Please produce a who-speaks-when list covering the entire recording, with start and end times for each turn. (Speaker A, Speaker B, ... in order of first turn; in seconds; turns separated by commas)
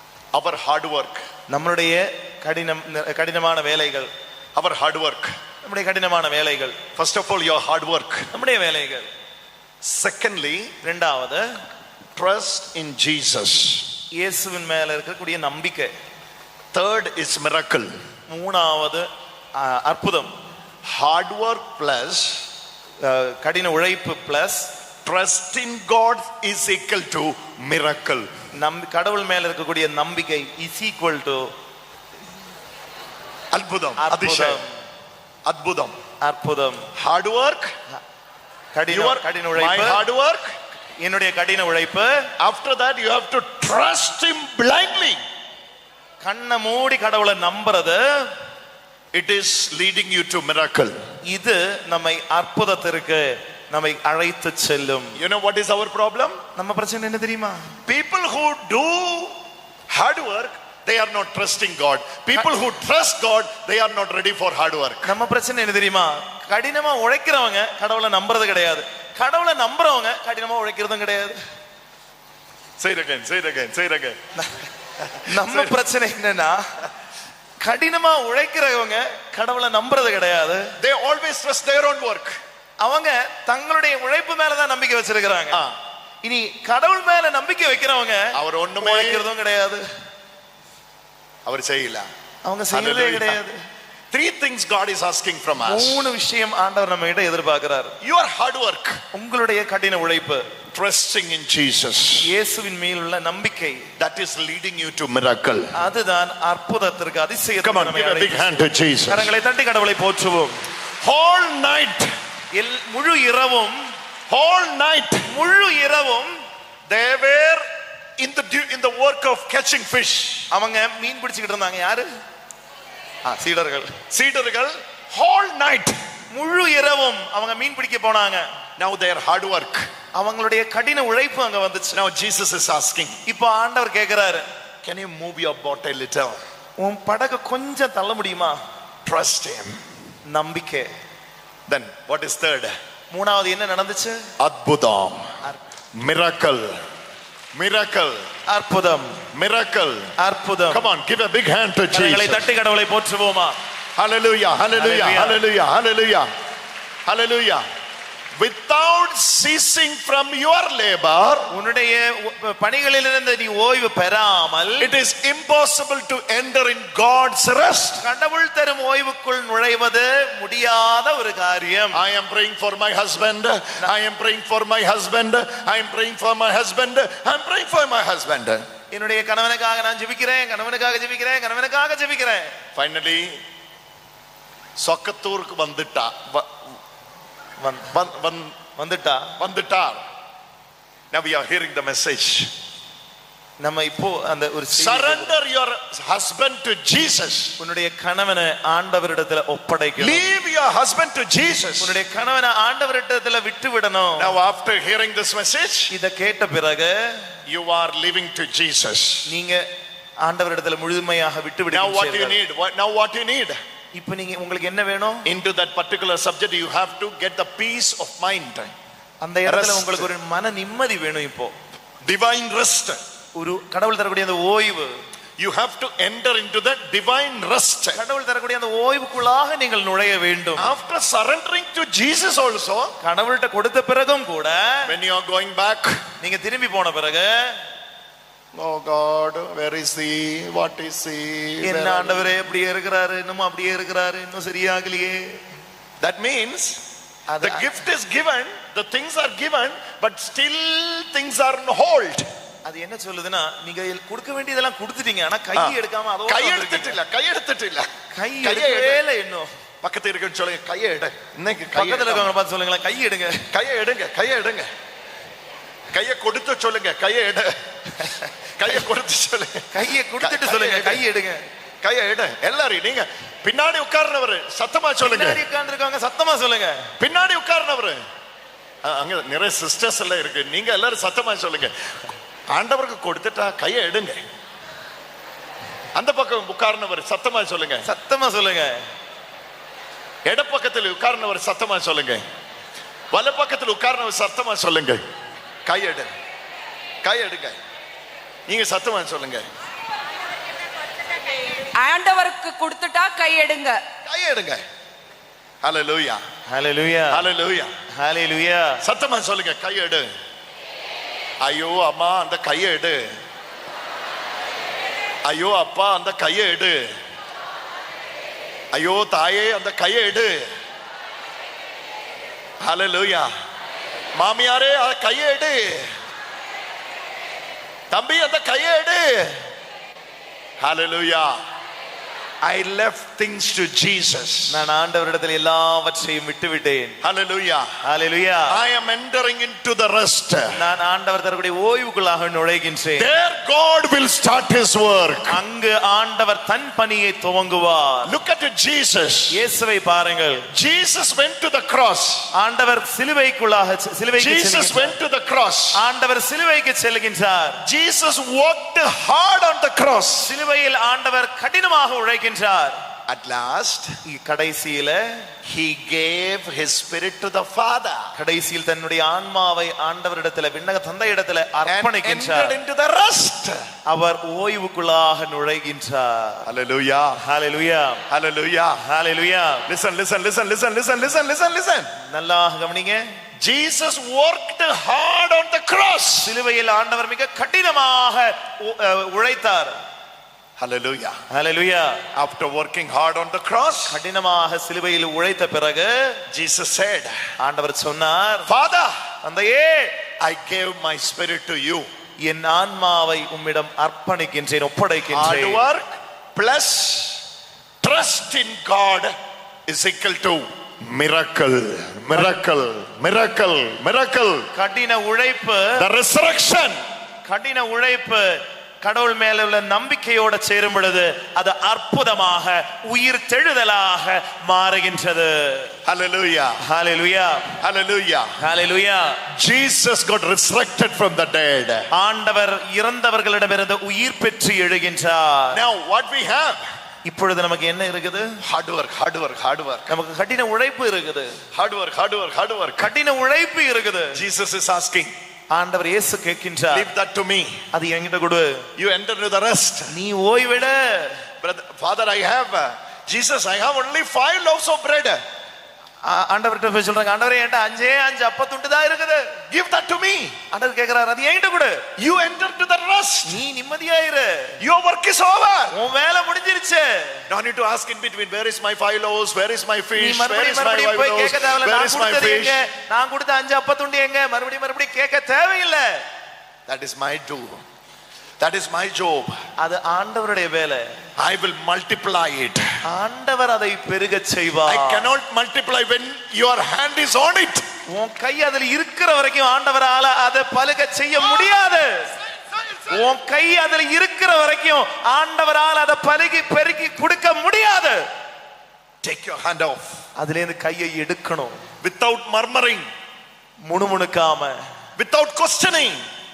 Speaker A: 0.3-1.2, Speaker B: 1.5-4.1, Speaker A: 4.5-5.4, Speaker B: 5.6-6.8, Speaker A: 7.0-8.3, Speaker B: 8.3-9.1, Speaker A: 9.8-10.7, Speaker B: 10.8-11.4, Speaker A: 12.2-13.9, Speaker B: 14.2-15.9, Speaker A: 16.7-17.9, Speaker B: 18.3-20.3, Speaker A: 20.8-22.4, Speaker B: 23.0-24.7, Speaker A: 25.0-28.3, Speaker B: 28.6-31.5, Speaker A: 33.5-34.6, Speaker B: 34.0-34.6, Speaker A: 35.5-35.9, Speaker B: 36.2-36.9, Speaker A: 37.0-37.7, Speaker B: 38.7-40.0, Speaker A: 38.9-40.5, Speaker B: 41.0-42.2, Speaker A: 42.4-45.2, Speaker B: 46.2-48.3, Speaker A: 49.1-51.0, Speaker B: 51.3-55.1, Speaker A: 55.2-56.4, Speaker B: 56.5-57.7, Speaker A: 57.9-59.4, Speaker A: 59.9-65.1, Speaker B: 65.0-71.4, Speaker A: 72.8-74.2, Speaker B: 74.4-74.7, Speaker A: 75.0-75.8, Speaker B: 75.3-76.6, Speaker B: 77.6-80.7, Speaker A: 80.8-82.4, Speaker B: 82.8-85.6, Speaker B: 86.2-89.8, Speaker A: 88.3-89.3, Speaker A: 91.5-92.1, Speaker B: 92.4-93.6, Speaker A: 92.7-93.4, Speaker A: 94.1-96.0, Speaker B: 95.6-97.9, Speaker A: 98.0-99.0, Speaker B: 99.1-100.5, Speaker A: 100.7-102.3, Speaker B: 102.2-103.8, Speaker A: 104.0-105.7, Speaker B: 105.7-108.5, Speaker A: 107.6-109.3, Speaker B: 109.1-110.5, Speaker A: 111.0-112.1, Speaker B: 112.5-113.8, Speaker A: 114.3-115.3, Speaker B: 115.3-116.3, Speaker A: 116.9-117.6, Speaker A: 118.2-120.5, Speaker B: 120.5-122.1, Speaker B: 123.2-124.0, Speaker A: 124.1-126.0, Speaker B: 126.3-128.5, Speaker A: 128.8-129.9, Speaker B: 130.2-132.0, Speaker A: 131.9-133.2, Speaker B: 133.2-134.4, Speaker A: 134.8-136.4, Speaker B: 136.8-138.6, Speaker A: 139.0-139.8, Speaker B: 140.3-140.9, Speaker A: 141.7-142.7, Speaker B: 143.1-144.2, Speaker A: 144.4-145.3, Speaker A: 146.0-146.8, Speaker A: 147.5-148.3, Speaker B: 148.5-149.2, Speaker A: 149.3-150.1, Speaker B: 150.2-150.8, Speaker A: 150.7-152.5, Speaker B: 151.9-153.6, Speaker A: 153.9-156.3, Speaker B: 154.7-155.4, Speaker A: 157.1-157.6, Speaker A: 158.4-161.5, Speaker B: 161.5-164.9, Speaker A: 164.8-168.0, Speaker B: 168.0-172.0, Speaker A: 171.9-178.6, Speaker B: 178.9-182.5, Speaker A: 182.8-183.4, Speaker A: 184.8-186.5, Speaker B: 187.6-187.9, Speaker A: 187.9-188.6, Speaker B: 188.8-189.3, Speaker A: 189.4-190.0, Speaker A: 191.1-192.5, Speaker B: 193.6-195.3, Speaker A: 194.7-197.6, Speaker B: 197.6-200.3, Speaker A: 200.0-202.0, Speaker B: 201.8-204.3, Speaker A: 204.2-205.9, Speaker B: 205.9-207.2, Speaker A: 207.5-209.3, Speaker B: 209.3-209.7, Speaker B: 210.2-212.4, Speaker A: 211.7-213.6, Speaker B: 213.9-215.3, Speaker A: 215.2-218.7, Speaker B: 219.2-221.5, Speaker A: 219.4-220.1, Speaker A: 222.0-223.0, Speaker B: 223.3-224.9, Speaker A: 225.4-228.0, Speaker B: 227.9-230.7, Speaker A: 230.6-232.9, Speaker B: 233.0-234.9, Speaker A: 234.9-236.0, Speaker B: 236.2-237.6, Speaker A: 238.5-242.3, Speaker B: 241.6-245.4, Speaker A: 246.0-246.8, Speaker B: 247.3-247.7, Speaker A: 247.4-252.3, Speaker B: 252.6-257.0, Speaker A: 255.5-257.9, Speaker B: 258.1-259.5, Speaker A: 258.4-259.0, Speaker A: 259.8-262.3, Speaker B: 261.7-263.4, Speaker A: 263.5-264.7, Speaker A: 265.9-268.0, Speaker A: 268.6-269.7, Speaker B: 269.7-271.5, Speaker A: 270.2-271.0, Speaker A: 271.8-275.4, Speaker B: 275.0-276.8, Speaker A: 277.0-278.0, Speaker A: 278.8-281.7, Speaker A: 282.5-284.2, Speaker A: 285.9-287.9, Speaker B: 287.8-288.8, Speaker A: 290.2-292.2, Speaker A: 293.1-295.0, Speaker A: 295.6-296.1, Speaker A: 297.0-297.6, Speaker A: 298.5-299.4, Speaker C: 301.2-303.8, Speaker A: 304.0-304.6, Speaker A: 305.6-306.2, Speaker B: 306.5-307.2, Speaker A: 307.1-307.7, Speaker B: 307.9-308.8, Speaker A: 308.8-310.1, Speaker A: 311.4-313.2, Speaker A: 315.2-316.9, Speaker A: 318.7-320.5, Speaker A: 322.6-323.3, Speaker A: 324.1-325.9, Speaker A: 327.9-329.4, Speaker A: 330.6-331.4, Speaker A: 332.4-334.6, Speaker B: 334.5-337.0, Speaker A: 337.0-337.7, Speaker B: 337.8-338.6, Speaker A: 338.5-340.6, Speaker B: 340.5-343.1, Speaker A: 343.0-345.4, Speaker B: 345.3-348.1, Speaker A: 348.1-349.4, Speaker B: 349.3-350.5, Speaker A: 350.5-352.3, Speaker B: 352.3-354.9, Speaker A: 354.2-355.8, Speaker B: 355.7-357.6, Speaker A: 357.6-360.3, Speaker B: 360.2-362.8, Speaker A: 363.1-363.9, Speaker B: 364.0-365.3, Speaker A: 365.4-368.1, Speaker B: 368.1-372.6, Speaker A: 371.6-373.6, Speaker B: 373.9-376.4, Speaker A: 376.4-377.2, Speaker B: 377.2-378.0, Speaker A: 378.1-378.8, Speaker B: 378.8-379.6, Speaker A: 379.7-381.9, Speaker B: 382.1-383.1, Speaker A: 383.4-386.4, Speaker B: 386.2-389.8, Speaker A: 390.6-391.2, Speaker B: 391.3-392.0, Speaker A: 392.1-394.0, Speaker B: 393.9-396.2, Speaker A: 396.3-397.1, Speaker B: 397.4-398.5, Speaker A: 398.5-398.9, Speaker B: 399.2-400.0, Speaker A: 400.2-401.9, Speaker B: 402.2-405.6, Speaker A: 405.1-407.2, Speaker A: 407.8-409.1, Speaker A: 409.7-414.5, Speaker B: 414.5-415.8, Speaker A: 415.8-416.8, Speaker B: 417.2-425.7, Speaker A: 425.8-426.6, Speaker B: 426.6-427.5, Speaker A: 427.6-428.3, Speaker B: 428.4-429.2, Speaker A: 429.3-431.9, Speaker B: 431.9-435.6, Speaker A: 435.5-436.6, Speaker B: 437.0-438.4, Speaker A: 438.4-439.9, Speaker B: 439.9-441.4, Speaker A: 441.5-442.9, Speaker B: 442.8-444.2, Speaker A: 444.1-445.1, Speaker B: 445.5-446.9, Speaker A: 446.7-447.6, Speaker B: 447.7-448.7, Speaker A: 448.8-449.9, Speaker B: 449.9-451.2, Speaker A: 451.4-455.2, Speaker B: 456.0-459.3, Speaker A: 459.5-460.4, Speaker B: 460.5-461.8, Speaker A: 462.0-463.4, Speaker B: 463.2-464.6, Speaker A: 464.6-465.7, Speaker B: 465.7-467.2, Speaker A: 467.3-472.6, Speaker B: 469.9-476.0, Speaker A: 476.7-477.6, Speaker A: 478.4-479.4, Speaker B: 479.6-480.9, Speaker A: 481.2-482.8, Speaker B: 482.8-485.1, Speaker A: 484.7-487.6, Speaker B: 487.9-492.1, Speaker B: 492.9-498.0, Speaker A: 499.0-500.0, Speaker B: 500.2-501.6, Speaker A: 501.8-502.9, Speaker B: 503.7-504.6, Speaker A: 505.0-506.0